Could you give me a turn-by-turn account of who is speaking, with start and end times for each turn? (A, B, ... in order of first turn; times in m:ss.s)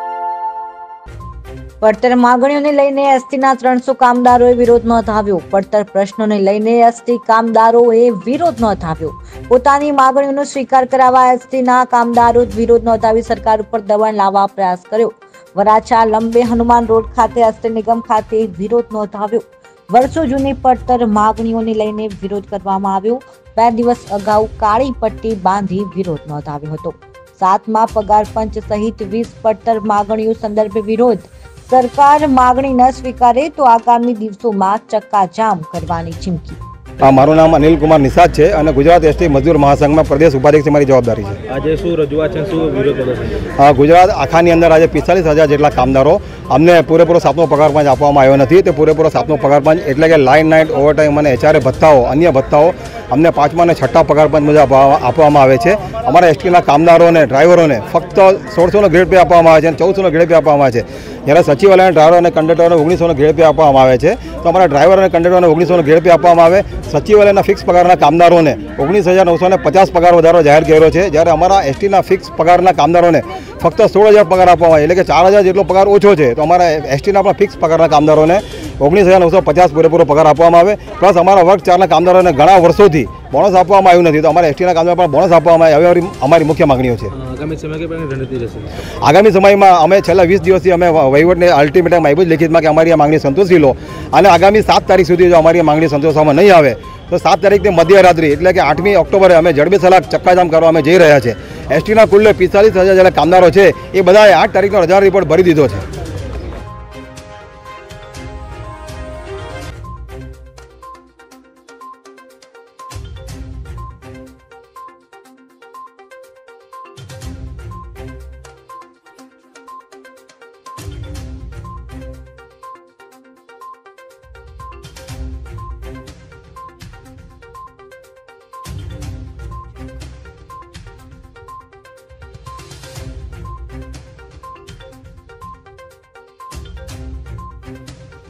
0:01.8-0:36.6 A
0:37.0-0:41.4 B
0:41.5-0:43.4 C
0:43.6-1:27.1 B
1:27.1-1:28.8 C
1:29.0-1:45.8 B